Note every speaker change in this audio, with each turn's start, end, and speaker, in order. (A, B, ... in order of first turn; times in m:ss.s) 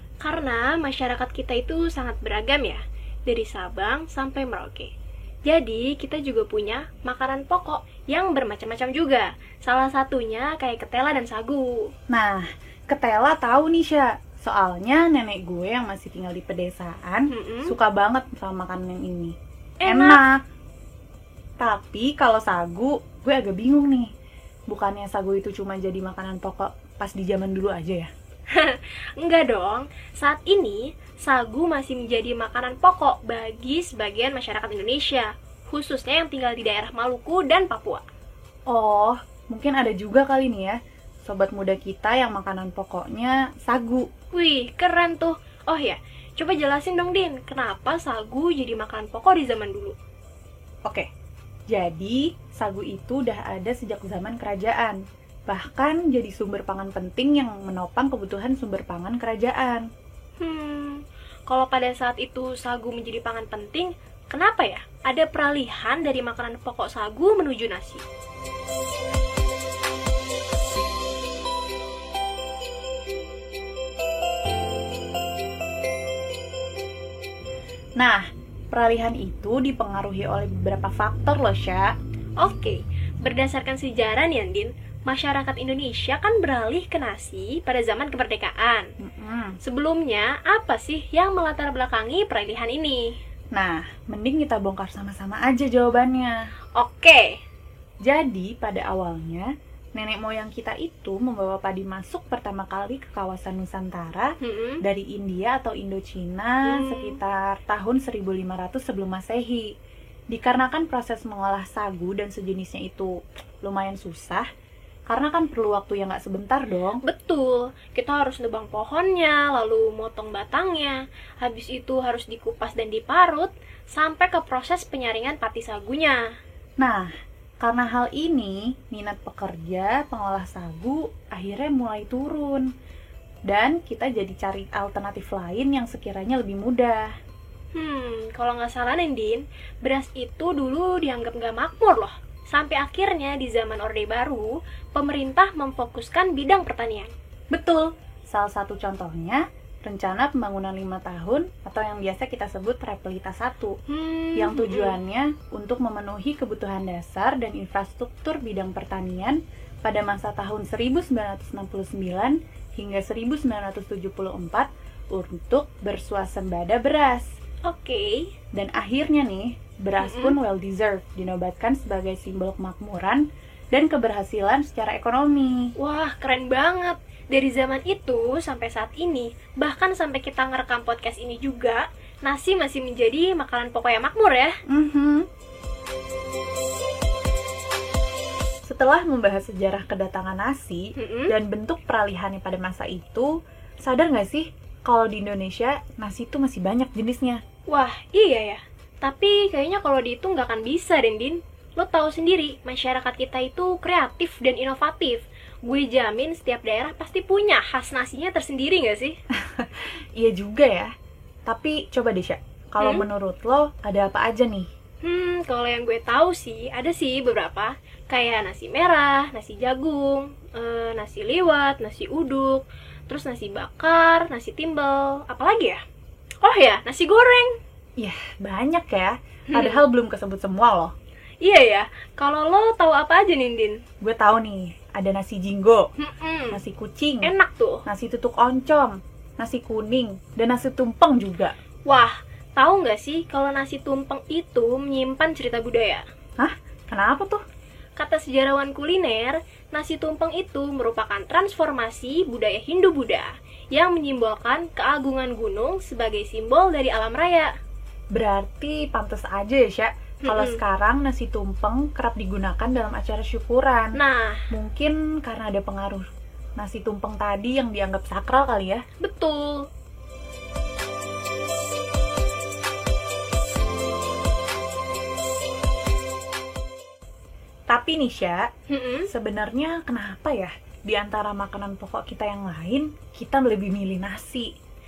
0:00.2-0:04.9 A
0:05.5-0:11.9 A
0:12.1-0:20.4 B
0:17.3-0:17.8 A
0:19.8-0:20.2 A
0:21.6-0:24.1 B
0:24.7-0:28.1 B
0:28.5-0:38.0 A
0:38.7-0:44.1 B
0:44.3-0:50.0 A
0:51.7-0:59.9 B
1:00.4-1:08.0 A
1:18.0-1:21.9 B
1:22.4-1:28.9 A
1:29.0-1:29.6 B
1:29.6-1:33.2 A
1:33.5-1:36.5 B
1:36.8-1:37.4 A
1:38.0-1:49.7 B
1:44.4-1:44.8 A
1:46.7-1:47.2 A
1:50.3-1:54.5 B
1:55.1-1:57.0 B
1:57.0-2:06.2 A
2:06.8-2:07.1 B
2:07.6-2:12.7 B
2:13.5-2:17.1 B
2:17.7-2:27.1 A
2:27.5-2:33.8 B
2:33.9-2:35.0 A
2:34.4-2:47.3 B
2:47.7-2:48.3 A
2:48.5-2:55.7 B
2:50.0-2:50.4 A
2:55.8-3:04.6 A
3:04.7-3:05.3 B
3:08.7-3:17.4 B
3:11.0-3:11.4 A
3:17.7-3:29.2 A
3:29.4-3:30.9 B
3:31.5-3:34.7 B
3:32.8-3:33.1 A
3:35.0-3:45.8 A
3:46.4-3:47.5 A
3:48.0-3:50.9 B
3:49.5-3:49.8 A
3:51.4-3:53.8 A
3:54.0-3:55.9 B
3:56.0-3:56.6 A
3:56.5-3:57.3 B
3:57.2-3:57.8 A
3:57.9-4:01.5 B
4:01.9-4:06.0 A
4:06.4-4:07.4 B
4:08.0-4:17.5 A
4:18.1-4:24.0 B
4:20.2-4:20.6 A
4:23.9-4:24.4 A
4:24.5-4:28.8 B
4:29.0-4:29.7 A
4:37.7-4:38.4 B
4:38.7-4:39.1 A
4:39.1-4:44.5 B